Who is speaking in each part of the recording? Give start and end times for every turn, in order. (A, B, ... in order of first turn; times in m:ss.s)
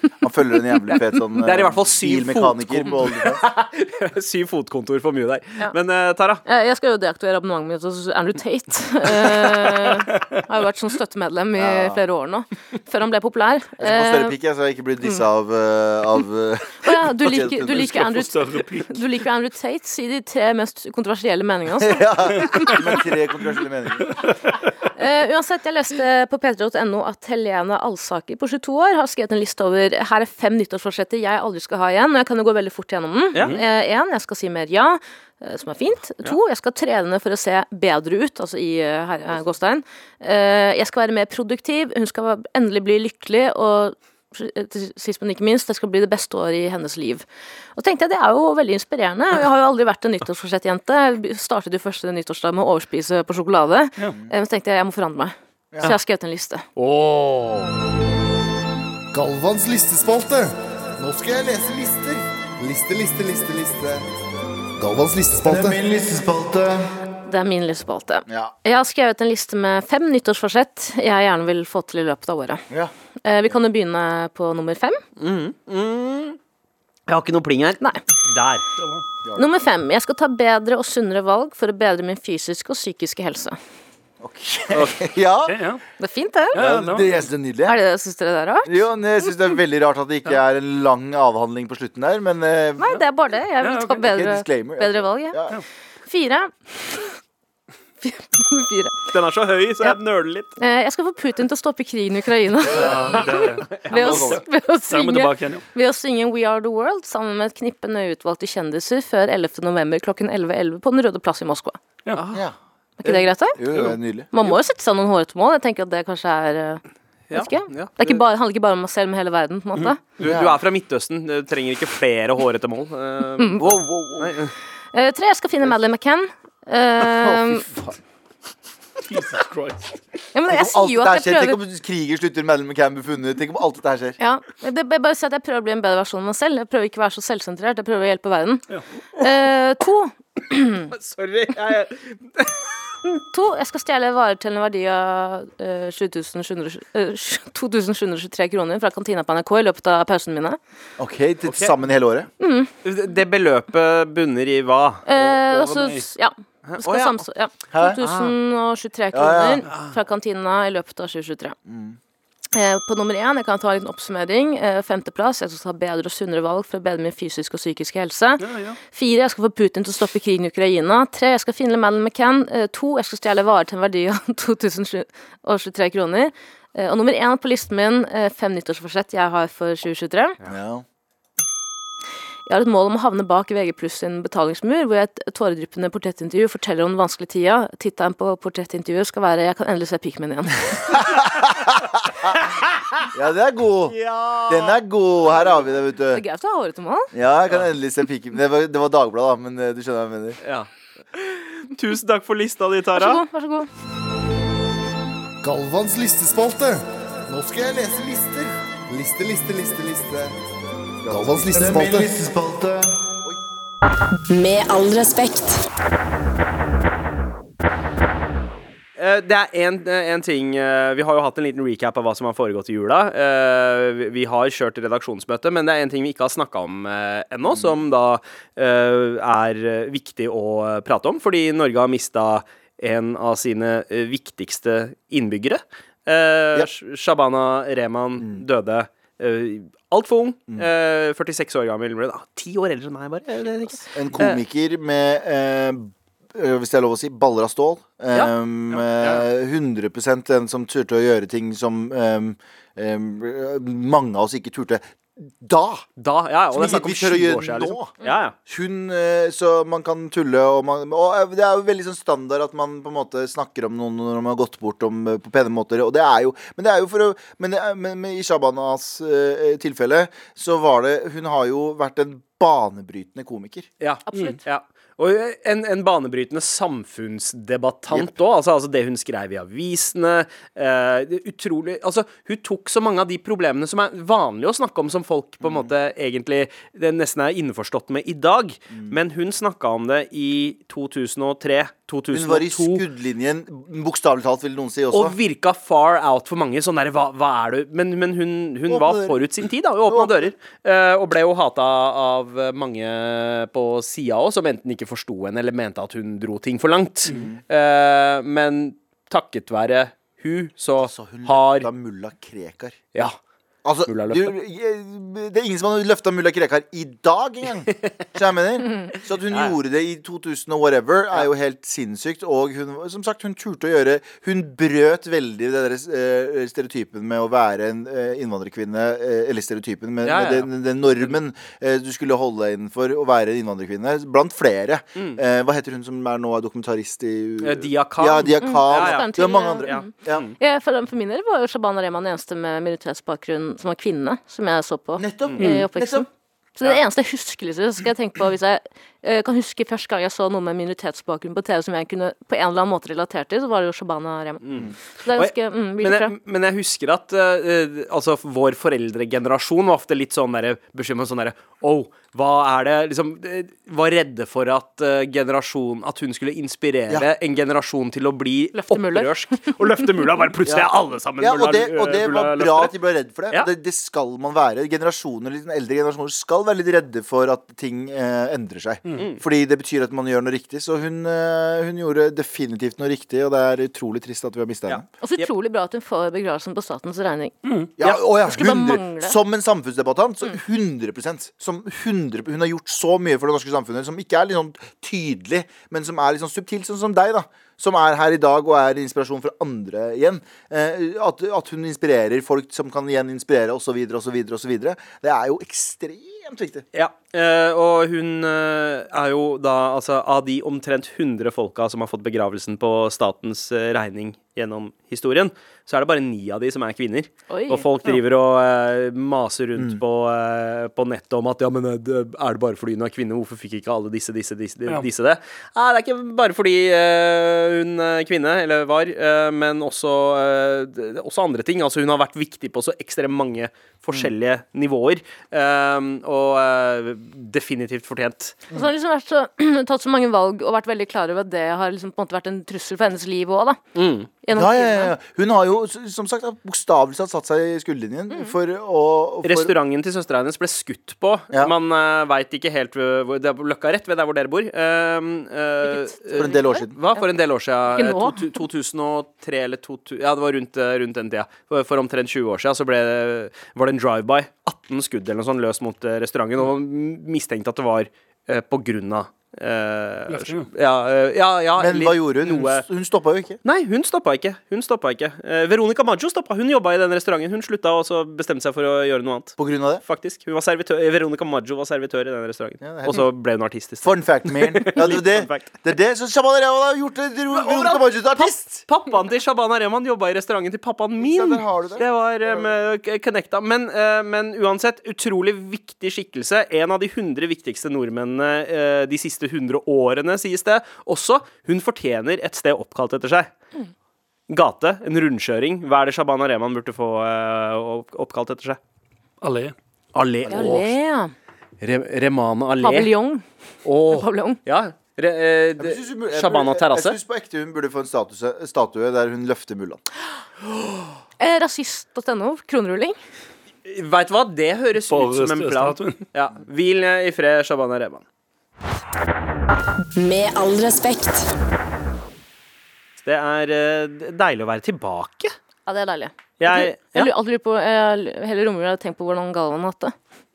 0:00.2-0:03.4 A
0:01.4-0:06.4 B
0:06.5-0:14.3 C
0:09.2-0:10.4 D
0:11.6-0:12.0 A
0:13.8-0:18.0 A
0:16.8-0:22.8 C
0:17.7-0:19.0 D
0:21.8-0:24.1 A
0:24.1-0:24.6 D
0:25.0-0:56.6 C
0:56.8-0:57.8 B
0:59.1-1:01.5 E
1:01.1-1:02.2 A
1:02.6-1:04.0 E
1:03.2-1:04.0 A
1:04.8-1:05.8 E
1:05.4-1:06.9 A
1:07.3-1:12.6 C
1:08.3-1:08.5 A
1:13.2-1:15.0 C
1:15.2-1:16.4 B
1:17.1-1:18.6 B
1:18.8-1:19.0 D
1:19.4-1:23.6 C
1:24.2-1:25.6 A
1:24.7-1:25.1 B
1:25.5-1:25.8 D
1:26.0-1:26.6 C
1:26.5-1:27.1 D
1:26.6-1:27.8 A
1:27.7-1:28.9 C
1:28.6-1:33.0 A
1:32.8-1:35.4 C
1:33.6-1:34.0 D
1:34.0-1:35.6 A
1:36.1-1:37.2 C
1:38.0-1:39.1 C
1:39.1-1:40.5 B
1:40.6-1:51.8 C
1:42.8-1:45.6 D
1:43.7-1:44.2 B
1:44.0-1:44.4 A
1:52.2-1:52.4 B
1:53.0-1:53.6 C
1:53.6-1:54.3 A
1:54.3-1:56.8 C
1:57.3-1:58.1 B
1:57.3-2:00.0 C
2:00.2-2:04.5 B
2:00.2-2:00.6 A
2:03.6-2:04.4 A
2:04.9-2:07.7 C
2:07.2-2:07.9 A
2:09.1-2:10.0 D
2:10.3-2:11.6 C
2:10.5-2:14.2 A
2:14.2-2:18.7 C
2:19.2-2:20.9 C
2:20.9-2:22.7 B
2:23.1-2:30.6 C
2:31.0-2:32.3 A
2:31.4-2:31.7 B
2:32.4-2:32.7 C
2:32.8-2:35.0 B
2:35.1-2:41.6 C
2:35.4-2:36.1 D
2:36.6-2:37.2 B
2:37.7-2:38.0 A
2:38.0-2:38.3 B
2:39.1-2:39.6 A
2:41.7-2:42.0 A
2:42.5-3:00.4 C
2:48.4-2:48.8 D
3:00.4-3:00.8 A
3:02.5-3:11.1 C
3:11.1-3:11.8 A
3:12.4-3:12.7 B
3:13.1-3:16.2 A
3:13.9-3:14.8 B
3:16.1-3:17.1 C
3:17.1-3:20.4 A
3:20.4-3:23.2 B
3:23.0-3:23.7 C
3:25.4-3:27.7 E
3:27.3-3:28.6 A
3:28.9-3:30.3 E
3:31.0-3:33.4 A
3:31.1-3:32.2 E
3:34.3-3:35.6 F
3:39.0-4:04.4 B
3:47.5-3:47.8 A
3:58.2-3:58.4 A
4:04.0-4:15.9 A
4:09.0-4:09.3 B
4:16.0-4:18.4 B
4:16.5-4:33.7 A
4:33.8-4:52.8 B
4:45.4-4:45.7 A
4:48.7-4:49.0 A
4:52.1-4:55.2 A
4:54.9-5:11.7 B
4:58.7-4:59.2 A
4:59.9-5:00.3 A
5:07.1-5:07.4 A
5:10.8-5:13.0 A
5:13.6-5:40.2 A
5:13.9-5:14.4 B
5:19.3-5:19.6 B
5:30.0-5:31.1 B
5:37.4-5:40.4 B
5:38.4-5:46.1 C
5:45.0-5:46.0 A
5:45.4-5:45.7 D
5:46.6-5:56.1 C
5:54.4-6:12.7 B
6:08.6-6:09.1 C
6:10.5-6:24.8 A
6:24.7-6:25.3 B
6:25.0-6:27.4 C
6:27.4-6:27.7 D
6:27.8-6:46.6 A
6:27.9-6:29.2 C
6:46.7-7:18.4 B
6:57.3-6:57.6 C
7:18.5-7:23.6 C
7:23.8-7:24.1 B
7:24.2-7:24.9 C
7:24.3-7:29.5 A
7:29.2-7:52.6 B
7:35.6-7:37.0 C
7:36.2-7:36.8 A
7:37.8-7:38.4 C
7:50.1-7:50.5 D
7:51.6-7:53.4 A
7:53.4-8:05.6 B
7:59.4-7:59.8 A
8:02.6-8:03.1 A
8:03.8-8:08.6 A
8:07.3-8:23.3 B
8:11.0-8:12.5 A
8:24.3-8:28.6 B
8:29.2-8:29.6 D
8:29.9-8:30.7 B
8:30.3-8:31.1 C
8:31.6-8:32.9 B
8:32.6-8:33.2 C
8:33.6-8:37.0 B
8:33.9-8:34.4 C
8:35.6-8:39.8 A
8:41.2-8:43.0 C
8:43.6-8:48.0 B
8:44.8-8:46.0 D
8:50.0-8:51.3 F
8:53.0-8:55.3 B
8:55.7-9:00.0 C
8:56.4-8:57.1 B